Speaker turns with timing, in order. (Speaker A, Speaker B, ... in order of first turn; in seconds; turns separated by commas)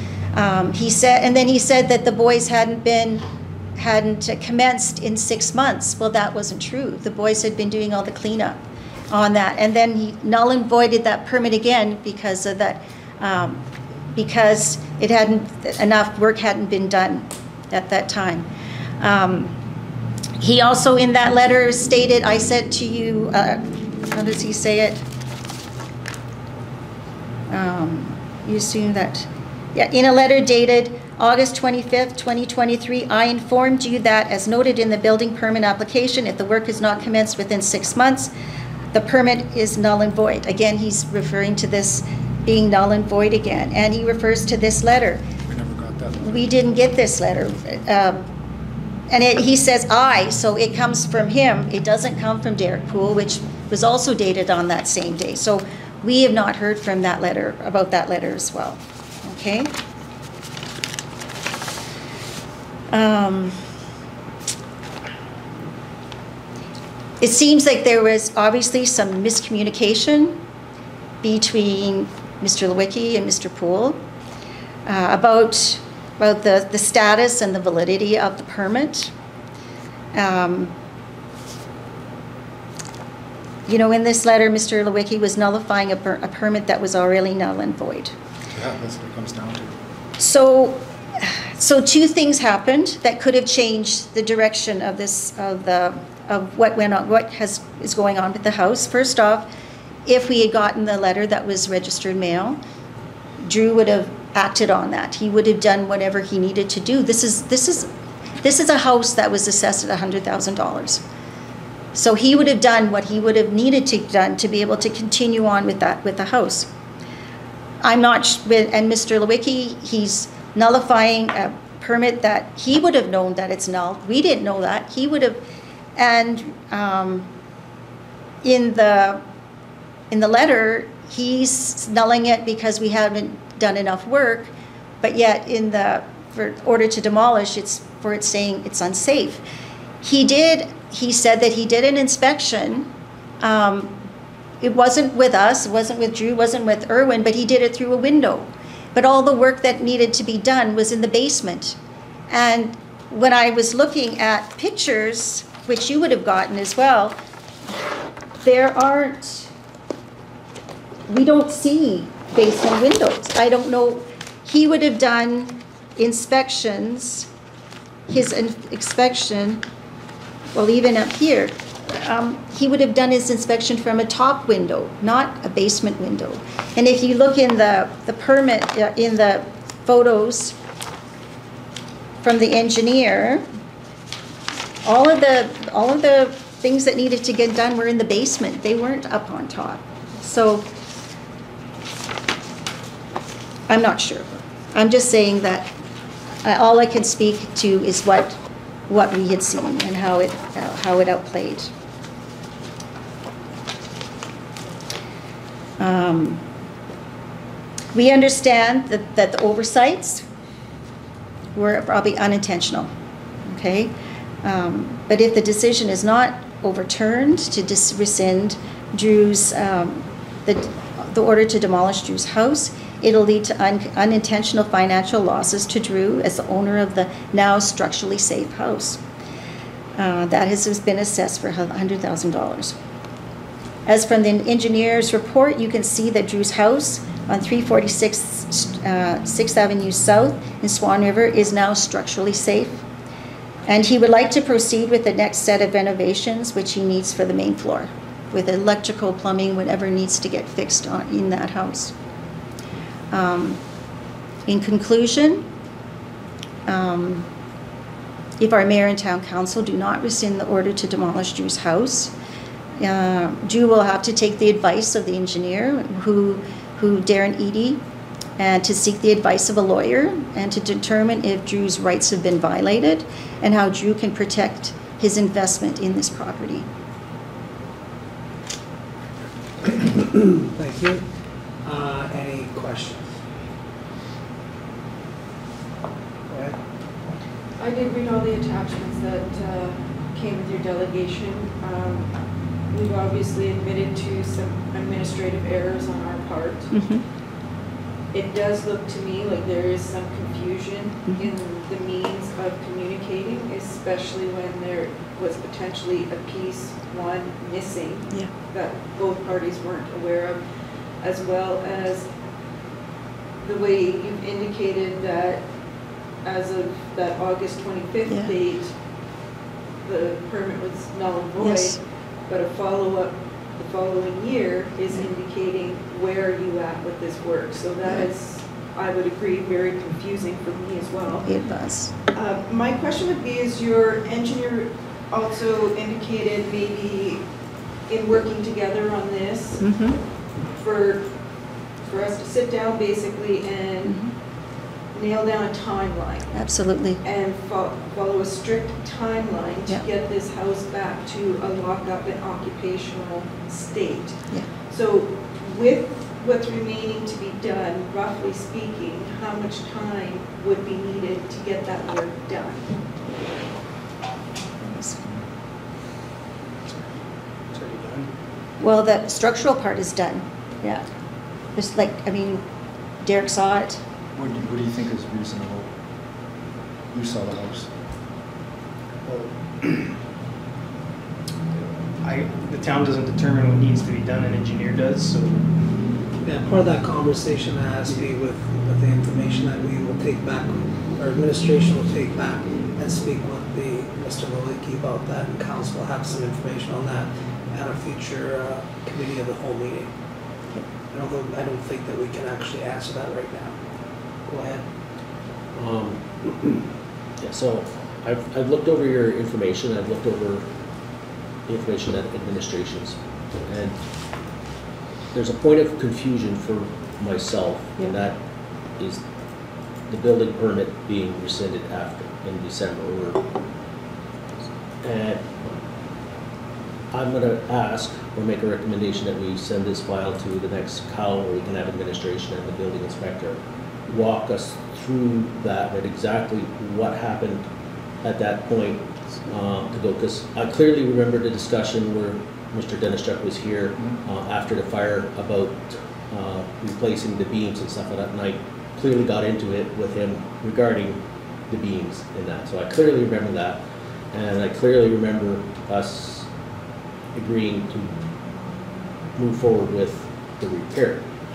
Speaker A: 0.3-18.5, Speaker A: 19.0-19.6, Speaker A: 20.4-25.0, Speaker A: 27.5-38.3, Speaker A: 38.9-45.2, Speaker B: 45.5-46.5, Speaker A: 46.2-48.3, Speaker A: 49.1-59.7, Speaker A: 62.9-63.6, Speaker A: 67.2-70.4, Speaker A: 71.2-74.0, Speaker A: 74.9-79.1, Speaker A: 80.1-80.8, Speaker A: 83.7-88.2, Speaker B: 88.5-89.8, Speaker A: 90.2-99.5, Speaker A: 100.0-102.6, Speaker A: 103.4-107.9, Speaker A: 108.4-111.0, Speaker A: 111.9-116.7, Speaker A: 117.8-125.4, Speaker A: 126.0-127.3, Speaker A: 128.4-129.2, Speaker A: 130.1-139.4, Speaker A: 140.0-143.9, Speaker A: 144.6-151.8, Speaker A: 152.3-157.2, Speaker A: 158.4-159.5, Speaker A: 161.1-167.3, Speaker A: 168.1-169.6, Speaker A: 170.5-180.6, Speaker A: 182.2-183.4, Speaker A: 184.8-190.7, Speaker A: 193.7-195.7, Speaker A: 196.4-198.4, Speaker A: 198.9-201.7, Speaker A: 205.8-206.4, Speaker A: 207.9-210.2, Speaker A: 211.6-212.9, Speaker A: 213.4-229.0, Speaker A: 230.0-232.8, Speaker A: 233.9-242.8, Speaker A: 243.7-251.9, Speaker A: 253.1-253.6, Speaker A: 254.5-255.5, Speaker A: 256.7-257.3, Speaker A: 258.4-262.1, Speaker A: 262.8-267.8, Speaker A: 268.4-276.7, Speaker C: 279.6-281.1, Speaker C: 281.6-283.2, Speaker C: 286.3-286.6, Speaker D: 287.6-292.1, Speaker D: 292.7-296.7, Speaker A: 296.7-297.0, Speaker D: 298.1-310.4, Speaker D: 311.0-312.1, Speaker D: 313.4-315.4, Speaker D: 316.2-318.7, Speaker D: 319.8-331.3, Speaker A: 321.4-321.8, Speaker A: 331.2-331.9, Speaker D: 332.1-337.2, Speaker D: 337.9-339.6, Speaker A: 339.6-340.0, Speaker D: 340.5-341.1, Speaker D: 341.8-344.0, Speaker A: 343.8-344.1, Speaker D: 344.9-346.4, Speaker A: 346.3-347.0, Speaker D: 347.0-362.8, Speaker A: 364.6-365.0, Speaker E: 367.5-368.1, Speaker A: 368.6-370.9, Speaker A: 371.5-372.5, Speaker A: 373.0-373.8, Speaker B: 374.1-375.8, Speaker B: 376.9-377.7, Speaker E: 379.1-379.9, Speaker E: 382.0-385.5, Speaker C: 386.2-399.9, Speaker C: 400.9-403.6, Speaker C: 404.3-404.6, Speaker F: 405.5-406.3, Speaker F: 407.2-410.5, Speaker F: 411.5-413.9, Speaker F: 415.1-419.0, Speaker F: 419.9-423.3, Speaker F: 424.8-425.6, Speaker F: 426.9-437.5, Speaker F: 438.0-456.3, Speaker F: 457.1-458.0, Speaker F: 459.1-461.2